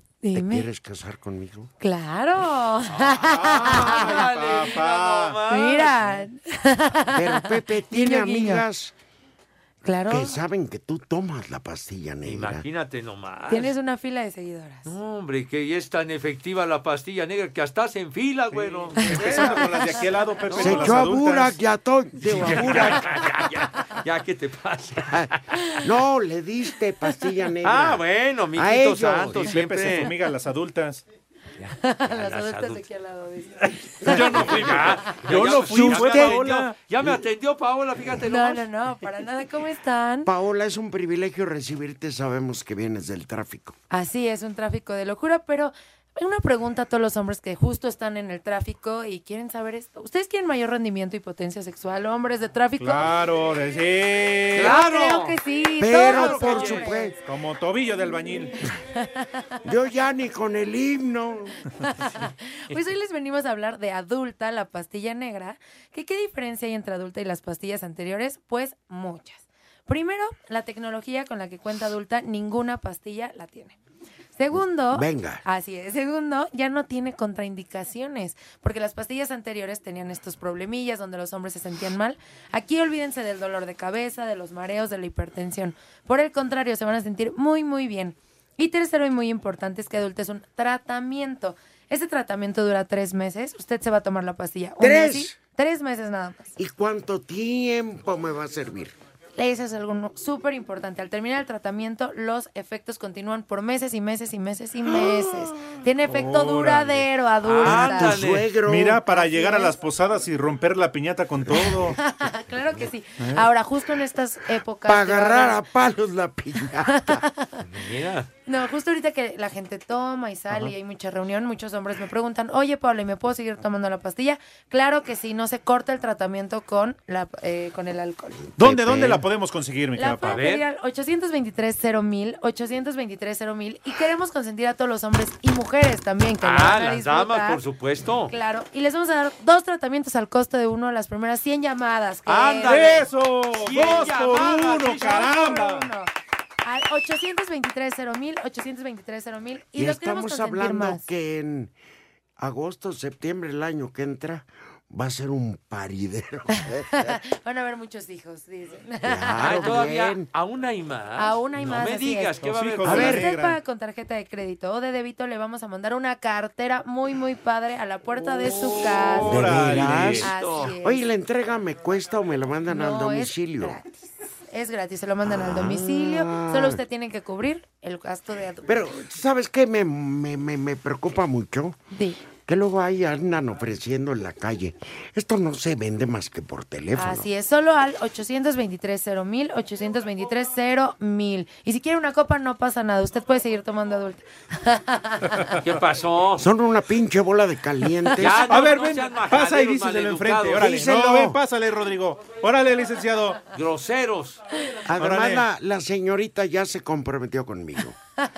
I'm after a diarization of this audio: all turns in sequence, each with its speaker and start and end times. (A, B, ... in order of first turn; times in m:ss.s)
0:00.2-0:00.7 A
0:00.3-0:01.7 B
0:01.8-0:04.2 A
0:03.0-0:06.2 C
0:03.0-0:05.4 D
0:05.5-0:08.6 A
0:07.1-0:08.9 B
0:09.8-0:10.4 A
0:10.1-0:12.6 B
0:12.2-0:13.7 C
0:13.5-0:14.9 A
0:14.8-0:19.7 C
0:18.5-0:21.6 D
0:19.2-0:20.0 A
0:20.5-0:21.0 C
0:20.6-0:23.0 B
0:22.2-0:25.4 C
0:22.5-0:22.8 D
0:25.1-0:29.5 B
0:27.6-0:30.1 C
0:29.5-0:31.0 D
0:31.6-0:32.8 C
0:31.8-0:34.6 A
0:34.0-0:36.7 D
0:34.0-0:38.6 C
0:35.8-0:36.3 B
0:38.2-0:40.3 A
0:40.2-0:43.8 B
0:43.9-0:53.1 A
0:52.8-0:54.9 D
0:54.5-0:55.4 C
0:54.6-0:57.1 A
0:55.8-0:57.2 B
0:55.9-0:56.9 C
0:57.2-0:58.5 D
0:59.6-1:01.6 B
1:01.8-1:13.8 A
1:14.4-1:36.5 A
1:14.9-1:15.4 B
1:34.8-1:35.4 B
1:36.6-1:38.9 B
1:39.4-1:48.2 A
1:46.1-1:47.1 D
1:47.4-1:48.5 C
1:47.7-1:49.1 B
1:48.6-1:52.0 D
1:49.1-1:49.8 A
1:51.5-1:51.8 B
1:51.6-1:55.6 A
1:53.2-1:53.5 D
1:54.8-1:57.2 B
1:56.8-1:57.5 A
1:57.6-1:58.3 C
1:58.5-2:08.4 A
2:08.4-2:09.2 B
2:08.6-2:10.4 D
2:10.0-2:17.6 A
2:10.2-2:10.6 C
2:16.4-2:18.3 C
2:18.3-2:23.0 A
2:22.2-2:25.3 C
2:22.6-2:25.9 D
2:25.0-2:26.1 A
2:26.6-2:31.0 A
2:29.8-2:31.7 B
2:32.4-2:37.2 B
2:36.6-2:39.8 A
2:39.0-2:40.3 B
2:39.4-2:43.3 C
2:41.2-2:51.0 A
2:42.4-2:43.6 D
2:42.8-2:43.3 B
2:48.9-2:50.3 D
2:49.1-2:53.8 B
2:52.7-2:53.9 A
2:54.5-2:58.8 A
2:55.2-2:56.8 B
2:58.6-3:01.8 B
3:01.9-3:02.2 A
3:02.4-3:07.3 B
3:07.0-3:15.5 A
3:15.6-3:16.4 C
3:16.4-3:18.5 B
3:18.2-3:20.6 C
3:18.2-3:23.4 D
3:20.6-3:21.4 B
3:23.5-3:24.4 C
3:24.8-3:28.0 B
3:25.0-3:25.4 D